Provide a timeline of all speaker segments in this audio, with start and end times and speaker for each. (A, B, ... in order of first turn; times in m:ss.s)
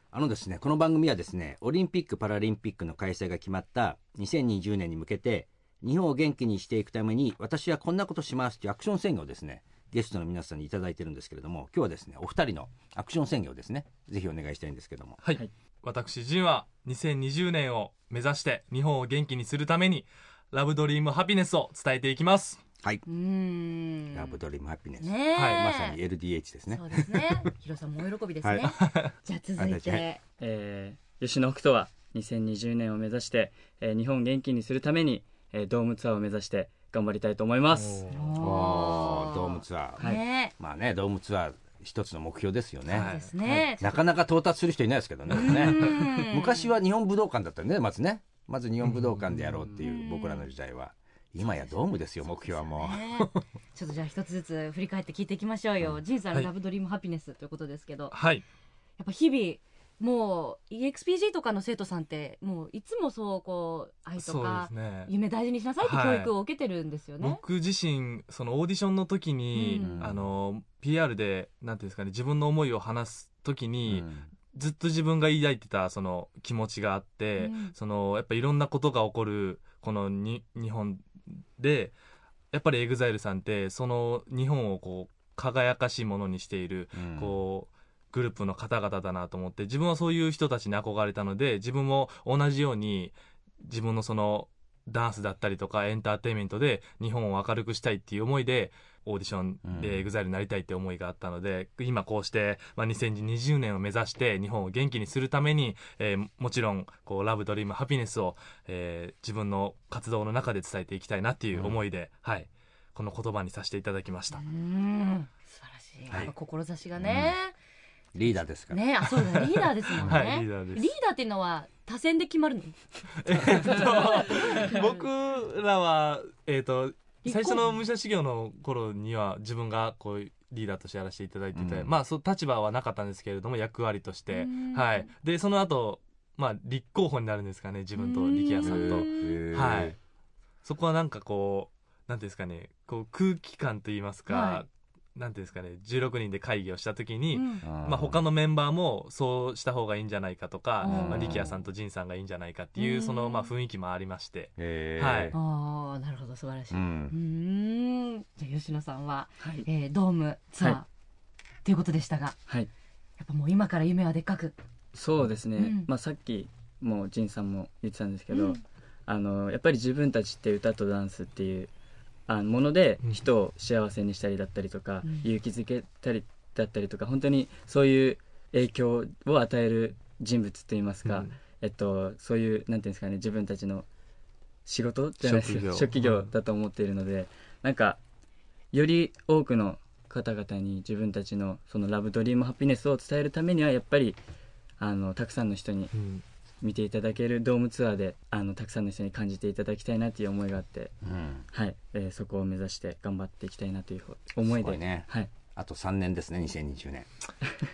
0:00.1-0:15.2 A
0:15.2-0:22.6 B
0:23.0-0:24.4 C
0:24.1-0:27.5 A
0:25.0-0:26.0 C
0:25.4-0:25.6 B
0:26.7-0:30.2 C
0:28.4-0:28.8 A
0:28.8-0:29.1 B
0:29.6-0:30.0 A
0:30.4-0:38.2 D
0:37.7-0:38.1 B
0:38.1-0:40.5 C
0:38.4-0:53.3 A
0:42.9-0:43.3 B
0:42.9-0:44.0 C
0:45.3-0:46.7 C
0:45.4-0:45.8 B
0:48.8-0:49.5 B
0:49.8-0:50.5 C
0:51.4-0:58.2 C
0:58.1-0:58.4 B
0:59.0-1:07.4 C
1:04.2-1:05.1 B
1:05.8-1:06.3 B
1:07.2-1:21.9 B
1:09.5-1:10.0 C
1:09.8-1:10.3 A
1:13.9-1:14.3 A
1:17.4-1:17.7 C
1:22.5-1:54.4 B
1:27.0-1:27.4 A
1:39.6-1:40.1 A
1:54.3-1:57.5 C
1:57.0-1:57.4 A
1:58.1-1:58.8 A
1:58.7-2:02.8 C
1:59.1-2:00.9 B
2:03.2-2:20.0 B
2:03.4-2:05.0 C
2:07.2-2:07.8 C
2:11.5-2:11.9 A
2:14.3-2:15.1 C
2:18.0-2:19.4 C
2:18.6-2:20.0 A
2:20.6-2:35.4 B
2:24.3-2:24.6 C
2:27.3-2:27.6 C
2:27.6-2:28.2 A
2:30.8-2:31.5 C
2:30.8-2:31.5 A
2:32.8-2:33.5 C
2:34.6-2:35.4 A
2:35.3-2:40.9 C
2:36.7-2:37.2 A
2:39.4-2:39.7 D
2:41.6-2:42.4 C
2:43.2-2:44.5 C
2:44.9-2:51.7 D
2:45.6-2:45.9 C
2:48.3-2:48.6 C
2:52.3-3:03.9 D
2:55.0-2:55.3 C
3:01.0-3:01.3 B
3:04.7-3:08.0 D
3:05.2-3:06.3 B
3:08.7-3:14.2 D
3:14.8-3:15.9 D
3:15.9-3:16.2 B
3:16.6-3:21.0 D
3:21.0-3:21.5 A
3:21.5-3:25.3 D
3:24.4-3:27.1 A